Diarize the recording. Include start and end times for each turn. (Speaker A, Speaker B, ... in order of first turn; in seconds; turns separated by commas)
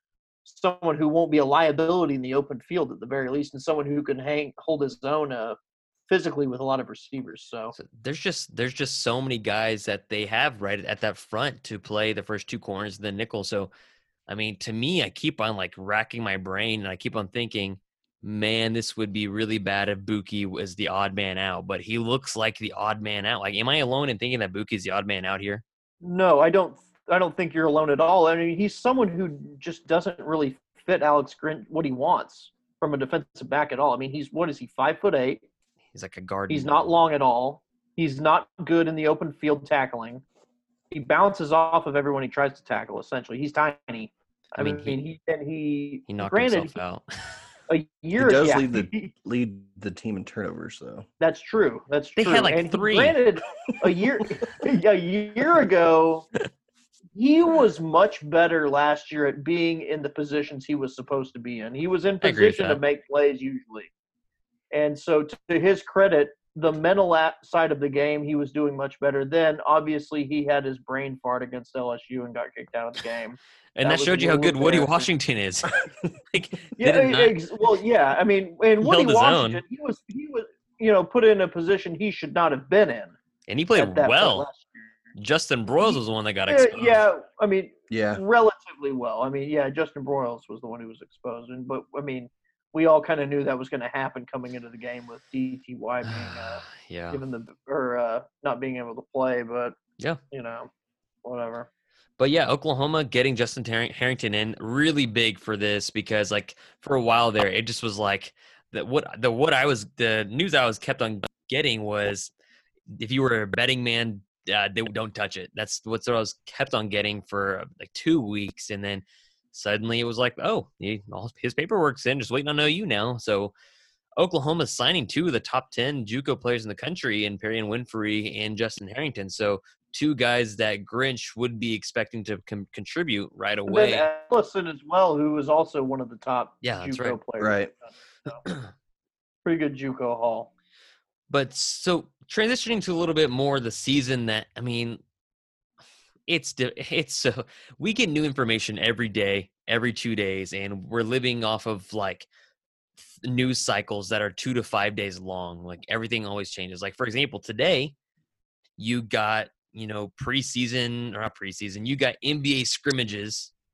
Speaker A: 0.5-5.6, Speaker A: 6.1-7.7, Speaker B: 7.8-13.7, Speaker B: 14.3-25.6, Speaker A: 26.0-35.4, Speaker B: 35.9-36.8, Speaker A: 36.5-40.2, Speaker A: 40.9-46.8, Speaker B: 44.6-45.0, Speaker B: 46.1-47.1, Speaker A: 47.7-49.1, Speaker C: 48.2-51.1, Speaker A: 51.2-56.3, Speaker B: 52.2-53.2, Speaker A: 57.1-63.9, Speaker B: 62.2-62.8, Speaker A: 64.7-75.1, Speaker B: 73.8-77.3, Speaker A: 76.8-83.1, Speaker B: 78.8-79.6, Speaker B: 83.5-84.5, Speaker A: 83.8-85.0, Speaker B: 85.2-87.0, Speaker A: 85.8-99.8, Speaker C: 87.9-88.2, Speaker B: 96.0-97.2, Speaker A: 100.3-100.7, Speaker A: 101.2-101.7, Speaker B: 102.2-112.3, Speaker B: 112.9-123.5, Speaker B: 124.2-134.1, Speaker A: 133.7-138.4, Speaker B: 136.6-137.2, Speaker C: 137.4-137.7, Speaker B: 138.4-138.7, Speaker A: 139.4-140.5, Speaker B: 141.3-145.0, Speaker B: 146.3-152.3, Speaker B: 153.2-157.9, Speaker B: 158.8-163.5